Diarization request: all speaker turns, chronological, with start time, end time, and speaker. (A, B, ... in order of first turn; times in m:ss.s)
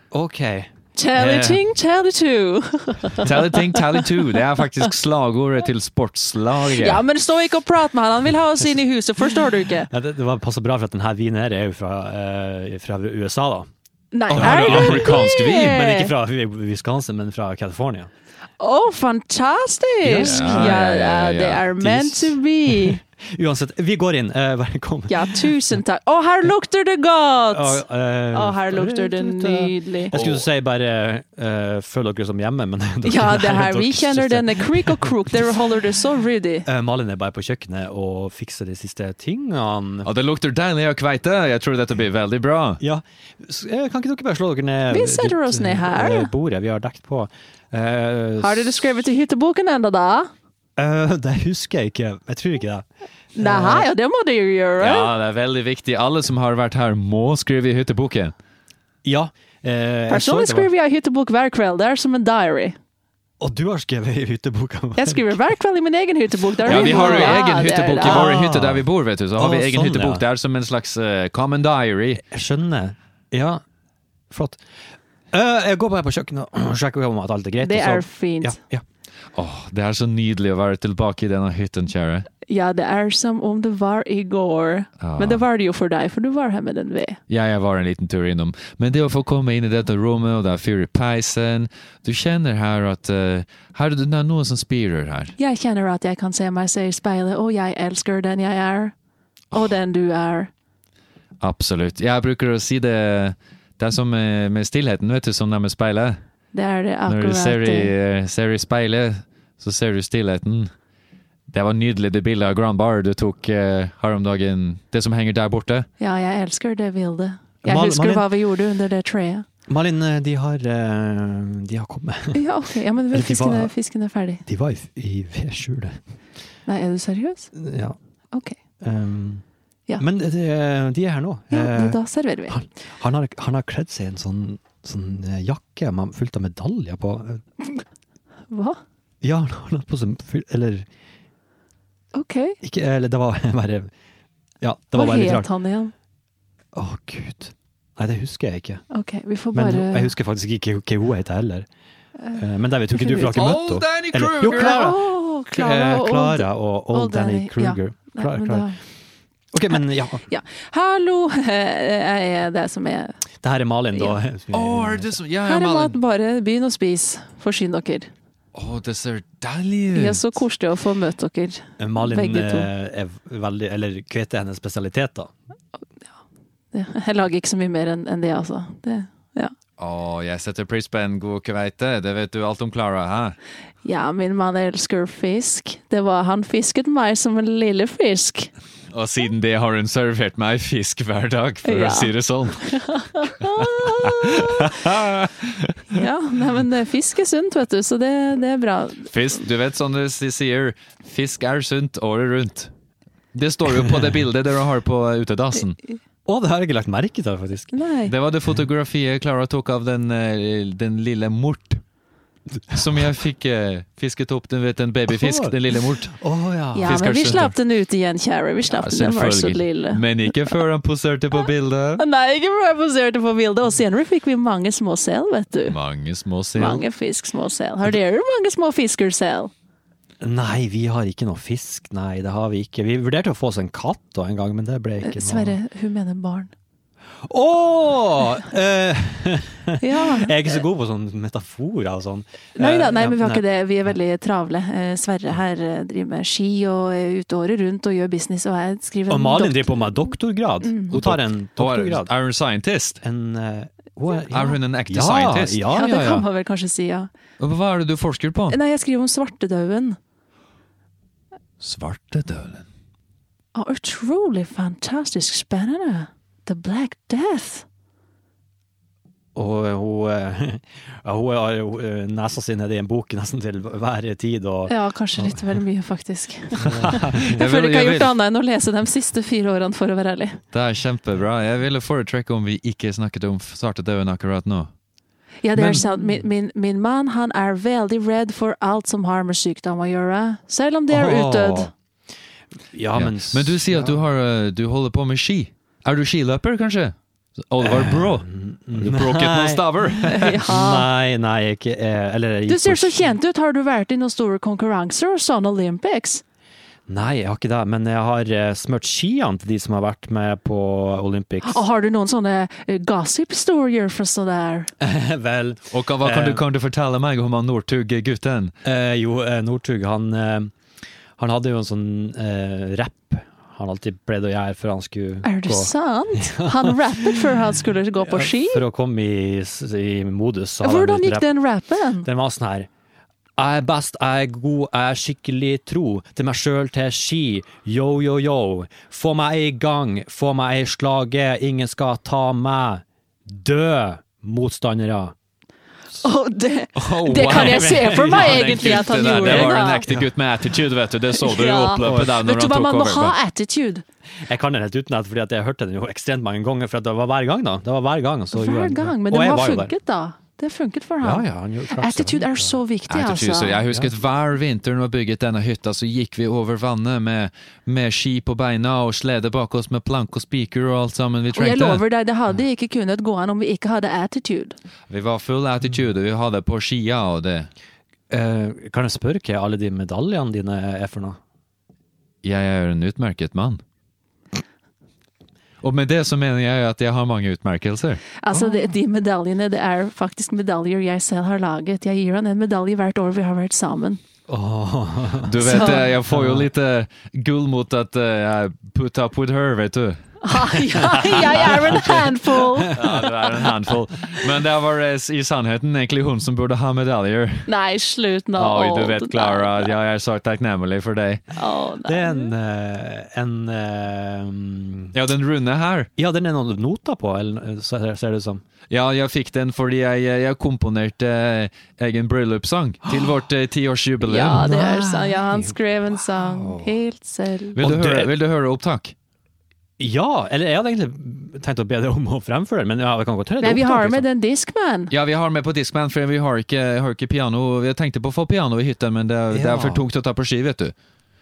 0:00.1-0:01.6 A
0:01.0-0:04.1 B
0:03.2-0:07.0 C
0:06.7-0:09.9 B
0:09.9-0:13.7 A
0:14.1-0:16.1 B
0:14.3-0:18.1 A
0:14.3-0:15.8 C
0:18.6-0:23.0 B
0:20.0-0:20.8 A
0:20.0-0:21.7 C
0:21.8-0:25.6 A
0:25.1-0:30.1 B
0:27.5-0:35.3 A
0:30.1-0:30.5 C
0:33.0-0:36.7 B
0:36.7-0:40.1 A
0:40.0-0:42.8 C
0:42.8-0:48.8 A
0:44.9-0:46.3 B
0:48.4-0:50.3 B
0:50.8-0:52.8 A
0:53.4-0:55.1 B
0:53.4-0:53.9 A
0:54.8-0:58.3 C
0:59.0-1:00.7 A
1:00.1-1:02.8 B
1:03.4-1:05.4 A
1:05.0-1:08.3 B
1:06.6-1:10.2 A
1:06.6-1:12.2 C
1:12.2-1:13.6 A
1:14.3-1:14.6 A
1:15.3-1:18.8 A
1:17.6-1:18.6 B
1:19.4-1:22.3 C
1:22.5-1:27.2 B
1:25.0-1:25.4 C
1:27.3-1:35.3 C
1:35.4-1:38.9 B
1:39.5-1:40.5 B
1:41.4-1:46.2 C
1:46.5-1:47.9 B
1:47.1-1:50.7 C
1:51.5-1:55.9 C
1:56.0-1:59.4 B
1:57.6-1:58.3 A
1:59.7-2:02.4 A
2:02.3-2:04.4 B
2:03.1-2:03.7 A
2:04.5-2:06.0 A
2:06.7-2:07.5 B
2:07.5-2:08.0 A
2:08.3-2:08.6 B
2:08.8-2:09.4 A
2:10.0-2:17.4 A
2:11.5-2:12.6 B
2:18.5-2:18.8 B
2:19.2-2:20.9 A
2:22.1-2:22.6 B
2:22.6-2:23.9 A
2:24.6-2:25.5 A
2:24.9-2:25.9 B
2:26.8-2:28.8 A
2:28.9-2:30.1 B
2:29.5-2:31.7 A
2:32.3-2:38.7 A
2:33.1-2:34.9 C
2:34.5-2:38.8 B
2:39.5-2:40.3 A
2:39.7-2:43.2 B
2:43.4-2:45.2 A
2:44.5-2:46.0 C
2:45.4-2:48.1 B
2:48.6-2:50.4 C
2:49.9-2:52.7 B
2:51.8-2:55.3 A
2:56.7-2:59.5 B
2:59.8-3:03.4 C
3:03.8-3:08.5 B
3:08.9-3:12.8 C
3:11.6-3:14.8 B
3:13.4-3:15.8 C
3:15.9-3:19.1 B
3:19.1-3:22.7 C
3:23.3-3:25.8 C
3:26.3-3:27.7 A
3:27.7-3:28.1 B
3:28.0-3:31.8 C
3:32.7-3:36.2 C
3:35.1-3:35.6 A
3:36.2-3:37.0 A
3:36.8-3:40.6 B
3:36.8-3:37.6 C
3:38.7-3:42.0 C
3:41.3-3:45.8 B
3:45.6-3:46.8 C
3:46.6-3:49.5 B
3:50.2-3:55.6 A
3:55.0-3:56.5 B
3:57.2-4:03.4 A
3:59.8-4:00.4 B
4:02.6-4:11.0 B
4:09.1-4:12.1 A
4:10.9-4:13.0 C
4:13.0-4:16.3 A
4:14.3-4:15.6 C
4:15.7-4:17.1 B
4:17.4-4:18.6 C
4:18.5-4:20.0 B
4:21.6-4:22.7 C
4:23.6-4:27.7 B
4:29.4-4:35.5 A
4:34.7-4:40.4 B
4:36.5-4:37.4 A
4:37.1-4:38.1 C
4:40.5-4:44.7 C
4:45.4-4:51.7 B
4:45.6-4:45.8 C
4:45.7-4:46.0 A
4:50.9-4:51.7 A
4:52.7-4:54.0 A
4:53.0-5:00.5 C
4:57.6-5:03.2 A
5:00.1-5:00.9 B
5:02.5-5:06.2 B
5:06.9-5:11.6 A
5:11.4-5:14.7 B
5:14.8-5:16.4 A
5:15.7-5:18.5 C
5:18.6-5:20.5 A
5:21.2-5:27.4 A
5:25.2-5:28.6 B
5:28.1-5:31.3 A
5:30.6-5:32.1 B
5:32.0-5:32.7 A
5:33.4-5:45.1 A
5:46.0-5:49.9 B
5:46.8-5:53.2 C
5:47.2-5:50.1 A
5:51.2-5:53.8 B
5:51.8-5:52.2 A
5:54.2-5:59.7 A
5:58.3-6:03.6 B
6:01.0-6:02.6 A
6:02.9-6:11.8 C
6:11.4-6:14.6 B
6:14.9-6:17.5 C
6:18.1-6:21.2 A
6:22.2-6:23.6 C
6:25.6-6:28.1 C
6:28.2-6:34.0 B
6:34.3-6:36.5 A
6:35.2-6:41.9 C
6:35.4-6:35.9 B
6:40.2-6:42.8 B
6:41.4-6:42.0 A
6:42.7-6:47.5 C
6:42.8-6:43.5 A
6:47.5-6:49.8 B
6:48.4-6:51.2 C
6:51.3-6:52.3 B
6:51.8-6:54.9 A
6:54.9-6:55.9 C
6:56.0-6:58.4 A
6:58.7-7:04.5 C
7:04.0-7:07.6 B
7:04.3-7:06.8 A
7:07.6-7:09.0 C
7:07.6-7:08.2 A
7:09.8-7:14.1 A
7:13.4-7:14.9 B
7:14.9-7:20.7 C
7:19.3-7:19.9 A